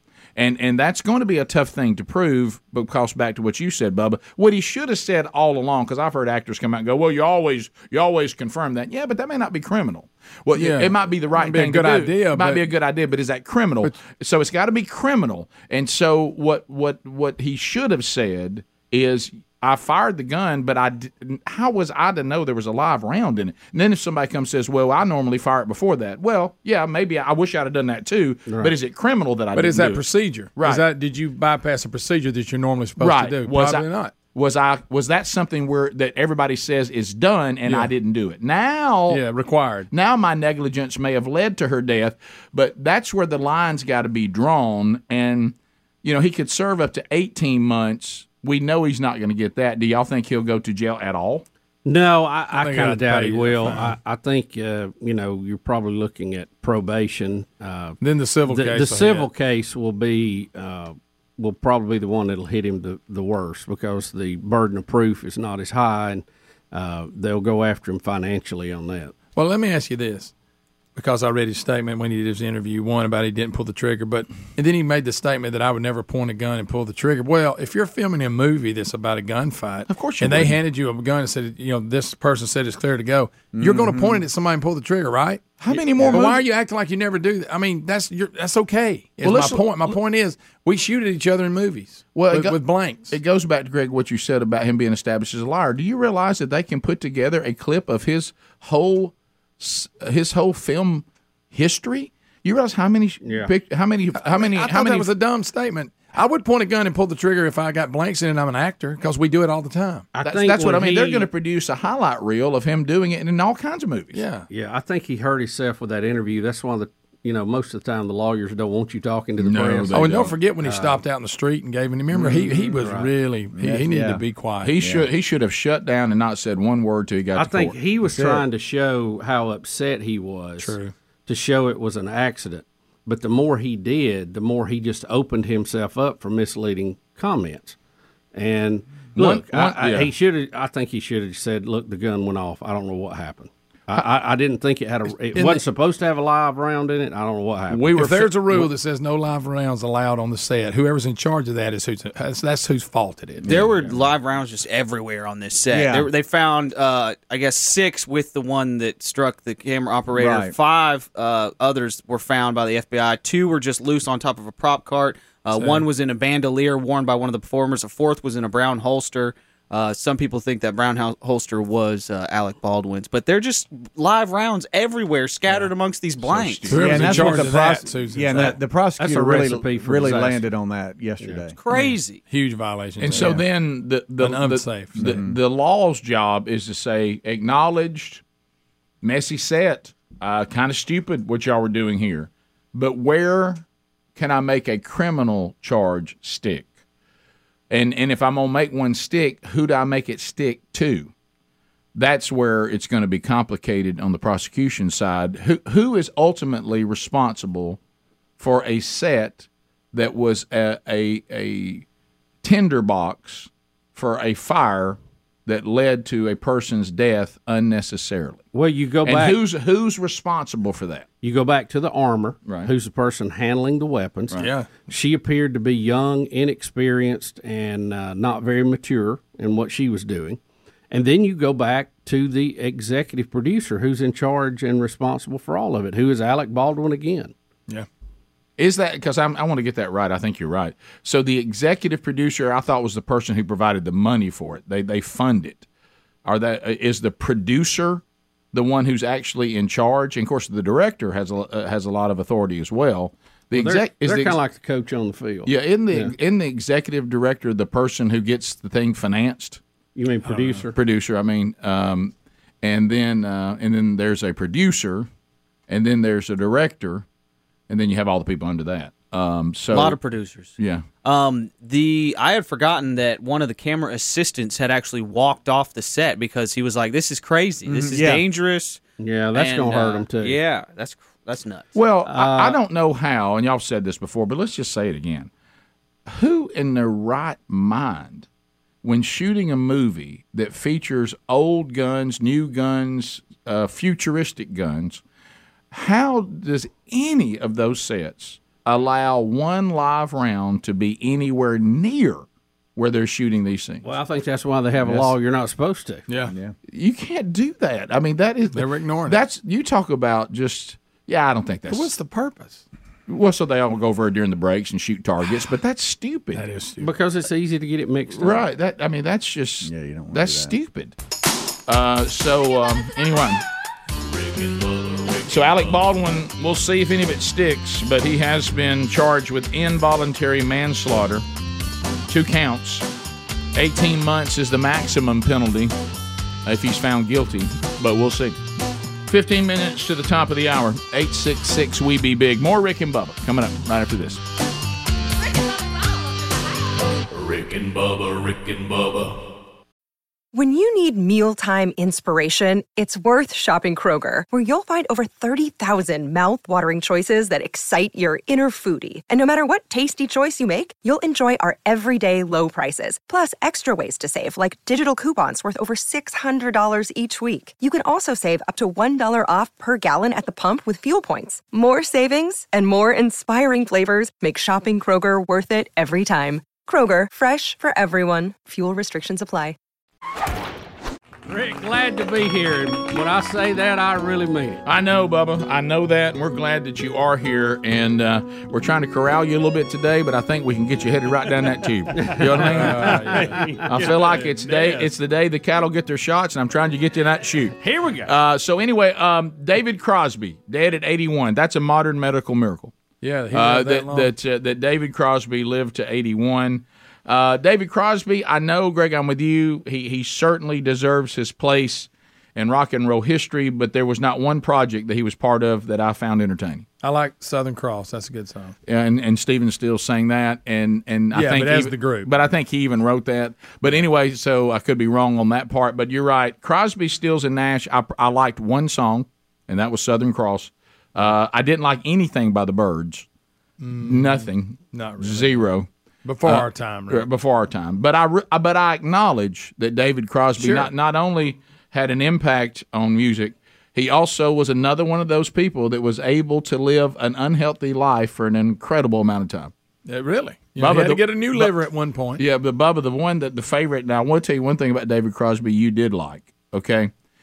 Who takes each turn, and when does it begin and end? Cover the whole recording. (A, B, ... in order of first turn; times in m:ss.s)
0:00.4-0:30.0 A
0:10.5-0:12.7 B
0:28.5-0:28.7 C
0:29.5-0:34.2 B
0:30.6-0:30.8 A
0:33.0-0:39.2 A
0:39.1-0:39.9 B
0:39.9-0:51.4 A
0:51.8-1:09.2 C
0:52.5-0:53.9 B
0:58.0-0:59.3 B
1:09.4-1:10.3 B
1:11.0-1:33.2 B
1:19.9-1:20.6 A
1:23.5-1:24.2 D
1:25.6-1:26.4 A
1:26.0-1:26.3 D
1:29.2-1:30.0 A
1:32.1-1:45.1 A
1:43.2-1:43.5 C
1:44.2-1:50.1 B
1:50.1-1:51.3 C
1:50.2-1:54.2 A
1:54.1-1:54.5 B
1:54.5-2:01.0 C
1:59.4-2:00.3 A
1:59.9-2:04.7 B
2:02.1-2:02.5 D
2:02.5-2:03.1 C
2:03.6-2:04.2 D
2:04.6-2:07.8 A
2:04.8-2:05.1 D
2:07.4-2:17.8 C
2:08.0-2:08.4 D
2:10.6-2:10.9 B
2:18.3-2:27.8 C
2:19.2-2:20.1 A
2:25.4-2:25.6 B
2:27.7-2:28.7 A
2:27.9-2:33.7 B
2:33.4-2:33.7 D
2:33.4-2:57.4 E
2:35.7-2:36.1 D
2:40.2-2:40.6 D
2:45.6-2:45.9 D
2:56.7-2:58.6 B
2:56.7-3:01.6 D
2:58.4-3:00.4 C
3:01.2-3:01.5 C
3:01.6-3:02.2 E
3:01.7-3:03.4 B
3:03.0-3:08.2 A
3:03.1-3:03.4 D
3:04.2-3:05.1 B
3:05.0-3:05.4 D
3:09.0-3:13.6 A
3:14.2-3:16.7 A
3:17.7-3:21.1 A
3:22.0-3:27.8 A
3:28.4-3:31.8 A
3:32.4-3:38.4 A
3:38.5-3:39.4 C
3:39.0-3:41.1 A
3:41.2-3:50.4 C
3:44.4-3:44.7 B
3:50.9-3:57.3 C
3:58.6-4:05.7 A
4:06.2-4:08.0 A
4:08.5-4:14.4 A
4:13.5-4:16.1 C
4:15.5-4:19.6 A
4:20.0-4:20.8 C
4:20.3-4:20.6 B
4:20.8-4:25.1 A
4:25.7-4:27.1 A
4:27.7-4:30.0 A
4:29.7-4:38.8 E
4:30.6-4:30.8 A
4:37.7-4:38.2 D
4:39.0-4:40.4 C
4:39.3-4:41.8 E
4:41.7-4:45.3 A
4:42.1-4:42.6 C
4:46.1-4:48.3 A
4:48.8-4:55.0 A
4:55.7-5:03.8 A
5:03.8-5:06.1 C
5:04.8-5:05.1 D
5:06.3-5:06.5 D
5:06.7-5:11.9 A
5:08.5-5:09.2 B
5:11.7-5:12.6 B
5:13.1-5:16.4 A
5:16.3-5:16.9 B
5:16.8-5:18.4 C
5:18.1-5:21.0 A
5:19.6-5:20.6 D
5:21.7-5:23.4 A
5:24.1-5:26.0 F
5:25.3-5:31.2 A
5:32.1-5:32.9 A
5:33.6-5:35.7 A
5:36.4-5:38.4 A
5:39.1-5:44.2 A
5:47.1-5:49.2 F
5:50.3-6:19.6 G
6:21.3-6:24.6 C
6:24.6-6:33.2 A
6:32.0-6:33.6 C
6:32.4-6:34.9 B
6:33.7-6:42.7 A
6:37.6-6:38.1 C
6:43.0-6:44.1 B
6:43.3-6:56.7 A
6:56.8-6:58.6 B
6:58.7-7:13.1 A
7:01.1-7:02.1 B
7:13.6-7:15.4 B
7:13.8-7:15.7 A
7:16.0-7:17.1 B
7:16.2-7:29.5 A
7:20.4-7:20.7 B
7:29.9-7:32.2 B
7:30.6-7:31.5 A
7:32.2-7:36.9 A